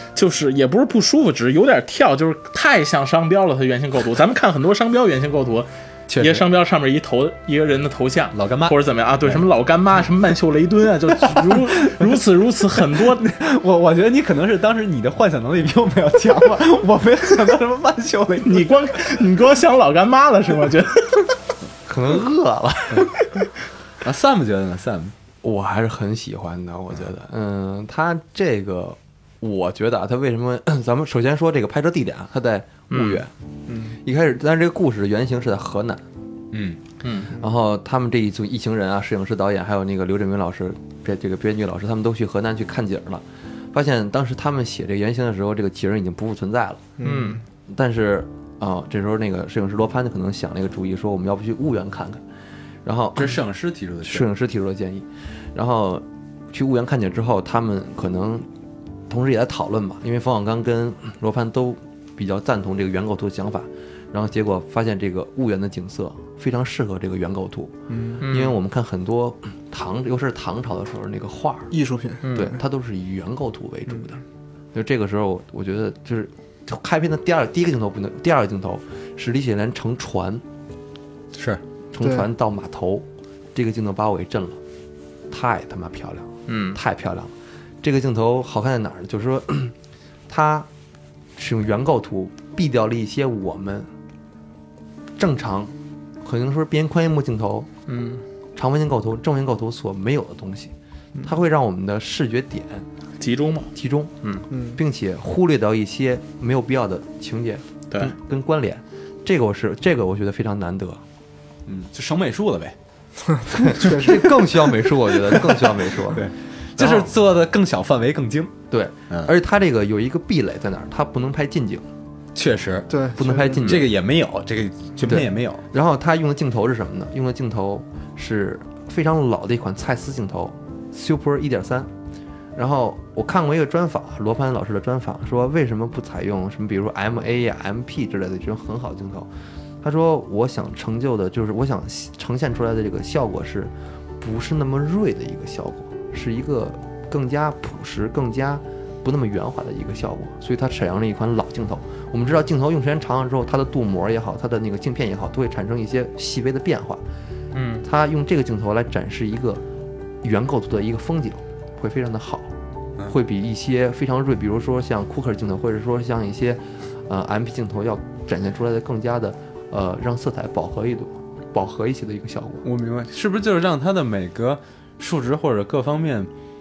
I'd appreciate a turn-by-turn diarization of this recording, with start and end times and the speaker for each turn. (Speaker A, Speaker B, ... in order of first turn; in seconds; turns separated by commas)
Speaker A: 0.1-13.2, Speaker B: 6.1-6.5, Speaker B: 8.3-9.4, Speaker B: 11.2-12.1, Speaker B: 12.8-18.8, Speaker A: 18.4-21.3, Speaker C: 21.9-23.1, Speaker B: 24.0-25.1, Speaker C: 25.4-33.3, Speaker A: 32.9-33.2, Speaker C: 33.9-36.0, Speaker B: 36.5-36.8, Speaker A: 37.0-37.3, Speaker C: 37.3-46.9, Speaker D: 47.0-47.4, Speaker A: 47.0-47.4, Speaker C: 47.7-52.2, Speaker C: 52.8-53.4, Speaker B: 53.1-54.3, Speaker C: 54.0-58.5, Speaker C: 59.1-71.7, Speaker D: 67.9-68.2, Speaker A: 68.2-68.5, Speaker D: 71.7-72.5, Speaker A: 72.2-72.5, Speaker C: 72.3-74.2, Speaker C: 74.7-80.4, Speaker B: 81.3-81.6, Speaker C: 81.9-84.6, Speaker D: 82.0-82.3, Speaker C: 85.3-89.7, Speaker A: 86.5-86.8, Speaker C: 90.3-90.7, Speaker C: 91.4-93.9, Speaker C: 95.2-95.7, Speaker C: 96.2-97.7, Speaker A: 97.9-98.2, Speaker C: 98.5-100.7, Speaker C: 101.2-102.8, Speaker A: 103.2-103.7, Speaker C: 103.7-111.0, Speaker D: 104.5-104.8, Speaker B: 111.7-112.8, Speaker D: 113.3-114.4, Speaker C: 113.5-116.2, Speaker B: 113.8-114.1, Speaker B: 115.1-118.5, Speaker C: 116.8-117.1, Speaker C: 118.7-121.9, Speaker B: 122.3-122.9, Speaker D: 122.9-123.7, Speaker C: 123.2-123.9, Speaker B: 123.5-125.6, Speaker C: 125.0-131.9, Speaker C: 132.6-139.3, Speaker C: 139.8-157.0, Speaker A: 157.5-157.8, Speaker C: 157.8-159.6, Speaker C: 160.2-162.5, Speaker C: 163.0-172.6, Speaker B: 172.6-176.3